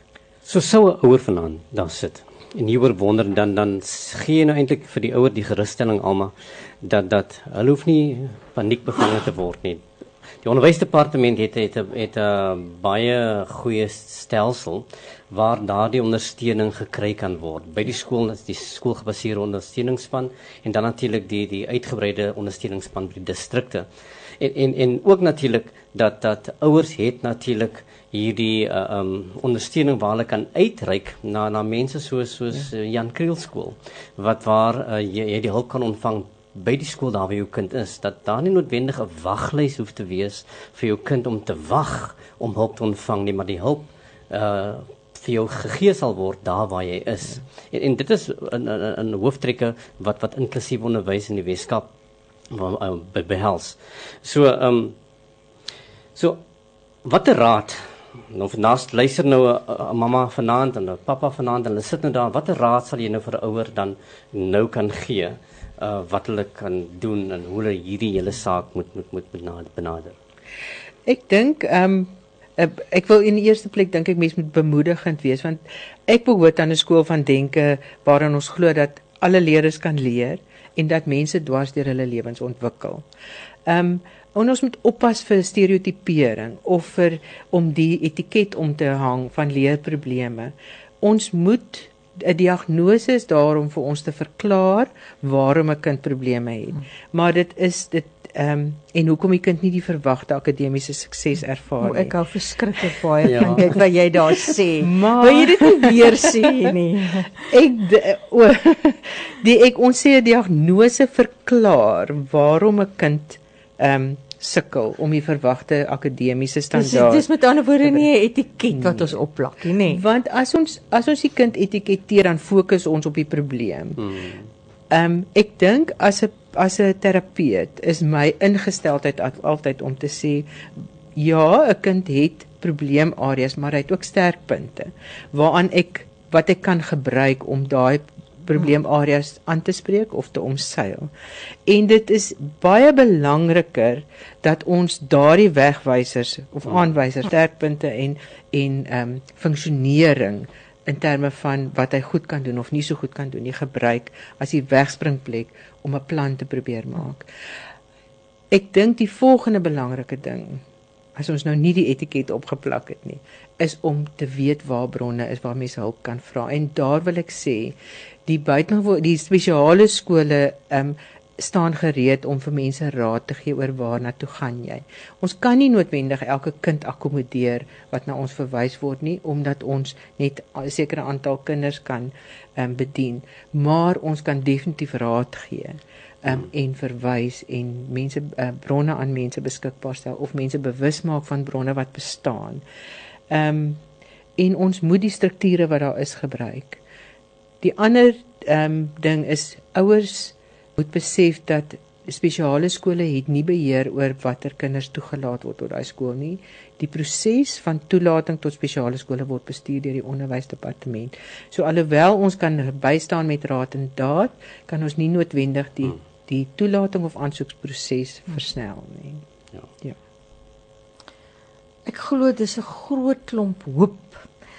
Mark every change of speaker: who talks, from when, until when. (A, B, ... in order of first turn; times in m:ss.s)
0:00.4-0:09.8 A
0:10.4-0:23.9 A
0:24.4-0:51.9 A
0:52.5-0:55.0 A
0:56.2-0:56.4 A
0:57.0-1:10.2 A
1:11.1-1:23.0 B
1:23.7-1:42.2 B
1:41.8-1:47.5 C
1:43.2-1:43.6 A
1:43.4-1:43.7 B
1:44.8-1:46.7 B
1:47.4-1:57.3 B
1:56.7-2:00.0 C
1:58.7-1:59.2 B
1:59.8-2:04.1 B
2:04.0-2:04.5 A
2:04.9-2:10.6 B
2:11.2-2:21.1 B
2:21.7-2:37.3 B
2:38.5-2:40.6 B
2:41.2-3:12.6 B
3:13.3-3:13.8 B
3:14.4-3:16.8 B
3:17.6-3:39.2 B
3:41.9-3:44.3 C